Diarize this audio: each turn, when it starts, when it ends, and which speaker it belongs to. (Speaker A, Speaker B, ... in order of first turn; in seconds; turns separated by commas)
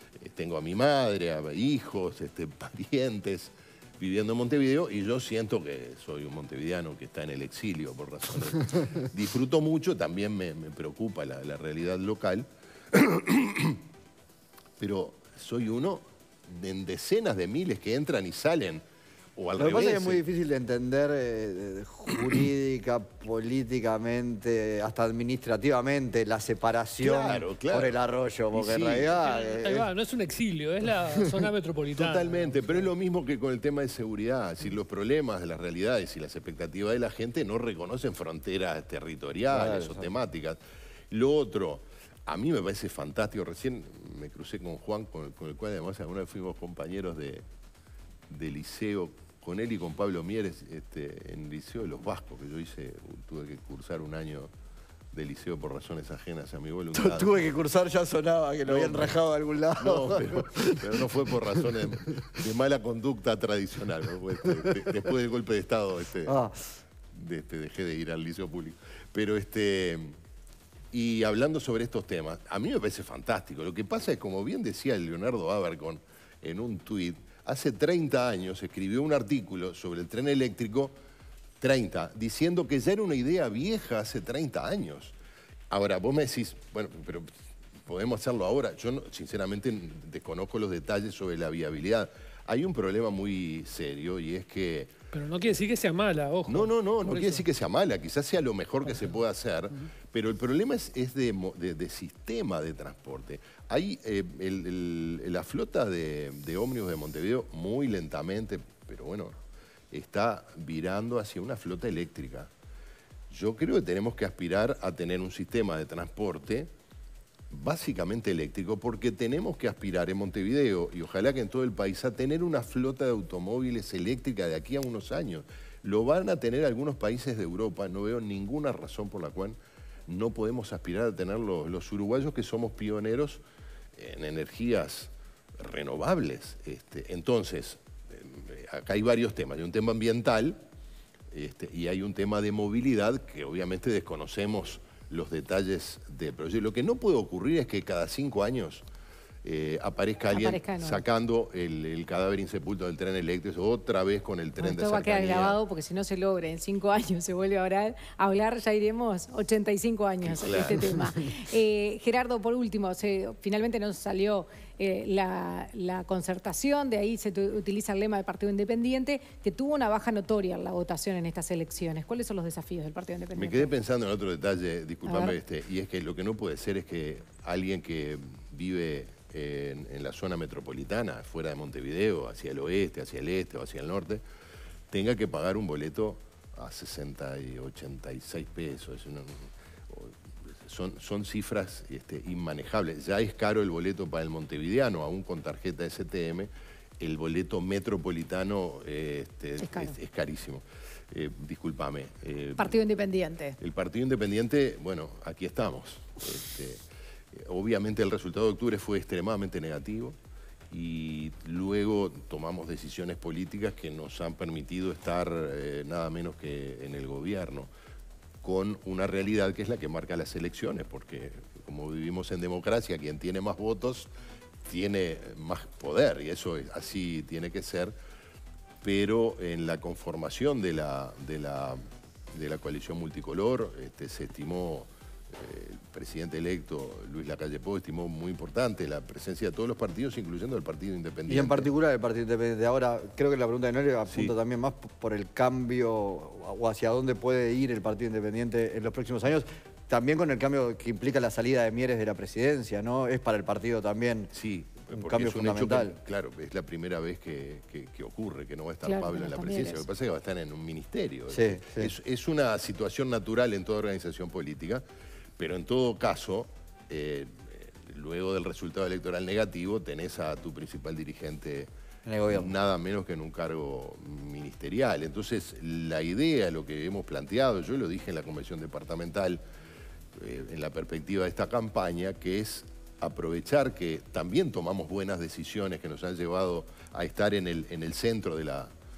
Speaker A: 0.2-13.8, Speaker A: 14.8-18.8, Speaker A: 19.4-20.2, Speaker B: 19.6-29.9, Speaker A: 27.0-27.9, Speaker A: 28.5-29.1, Speaker C: 29.2-32.9, Speaker A: 32.0-40.6, Speaker B: 39.5-40.1, Speaker A: 41.1-47.4, Speaker A: 48.3-54.5, Speaker A: 55.1-57.4, Speaker B: 56.9-62.2, Speaker A: 58.6-59.2, Speaker A: 59.8-66.4, Speaker B: 64.4-64.9, Speaker B: 66.2-66.6, Speaker A: 67.1-70.1, Speaker A: 70.9-80.9, Speaker A: 81.6-85.1, Speaker A: 85.7-87.3, Speaker A: 87.8-94.9, Speaker C: 95.1-97.4, Speaker A: 96.5-109.4, Speaker A: 109.9-112.5, Speaker A: 113.3-116.7, Speaker A: 117.5-133.4, Speaker A: 133.9-140.6, Speaker A: 141.3-148.8, Speaker A: 149.4-155.6, Speaker D: 150.3-151.0, Speaker D: 154.6-173.7, Speaker A: 160.2-161.2, Speaker A: 173.3-184.2, Speaker D: 175.0-175.3, Speaker A: 184.9-202.7, Speaker D: 199.6-199.9, Speaker D: 202.6-203.6, Speaker A: 203.6-206.8, Speaker A: 207.3-210.2, Speaker A: 210.7-217.7, Speaker A: 218.4-224.1, Speaker A: 224.7-227.9, Speaker A: 228.8-231.8, Speaker A: 232.3-241.7, Speaker B: 241.3-254.3, Speaker A: 254.3-264.8, Speaker B: 254.9-255.9, Speaker D: 258.8-259.8, Speaker B: 261.3-261.9, Speaker A: 265.4-271.7, Speaker B: 272.1-272.5, Speaker A: 272.3-279.4, Speaker A: 280.1-288.7